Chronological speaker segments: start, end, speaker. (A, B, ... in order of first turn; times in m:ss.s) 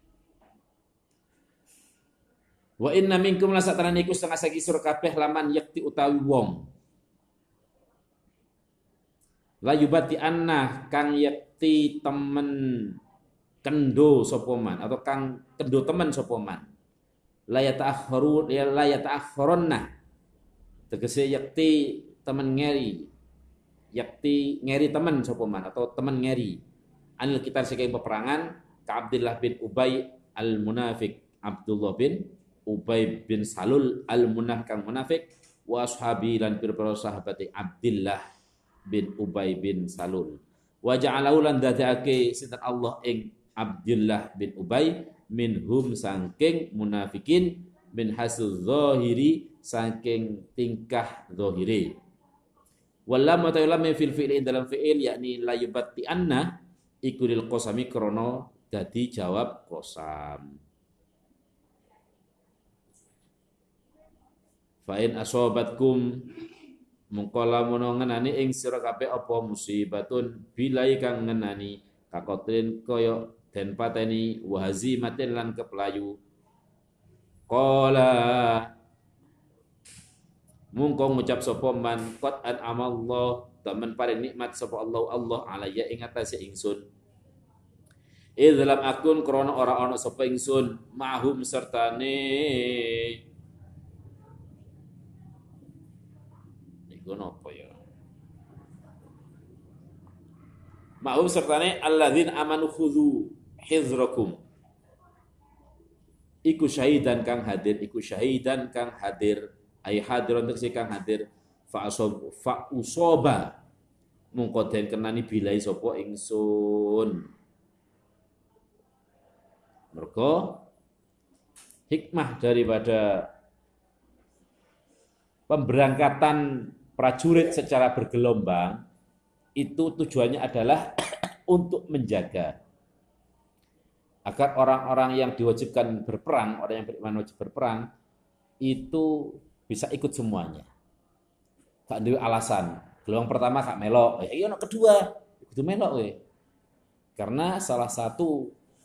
0:02.8-0:06.7 A
0:09.6-0:13.0 A
0:13.6-0:16.7 A
0:17.5-0:19.9 A
0:20.9-0:23.1 A
0:23.9-0:26.6 A
0:27.2-0:38.2 A
0:38.9-0:52.0 A
0:53.1-1:00.6 A
1:04.8-1:06.3 A
1:07.1-1:16.2 A
1:17.5-1:18.7 A
1:20.7-1:26.8 A
1:28.4-1:33.2 A
1:36.9-1:37.8 A
1:41.0-1:44.4 A
1:46.4-1:53.6 A
1:54.3-1:57.3 A
1:59.9-2:00.7 A
2:01.9-2:03.3 A
2:05.5-2:08.8 A
2:09.6-2:12.6 A
2:14.3-2:17.9 A
2:18.6-2:20.7 A
2:21.9-2:26.2 A
2:27.2-2:28.5 A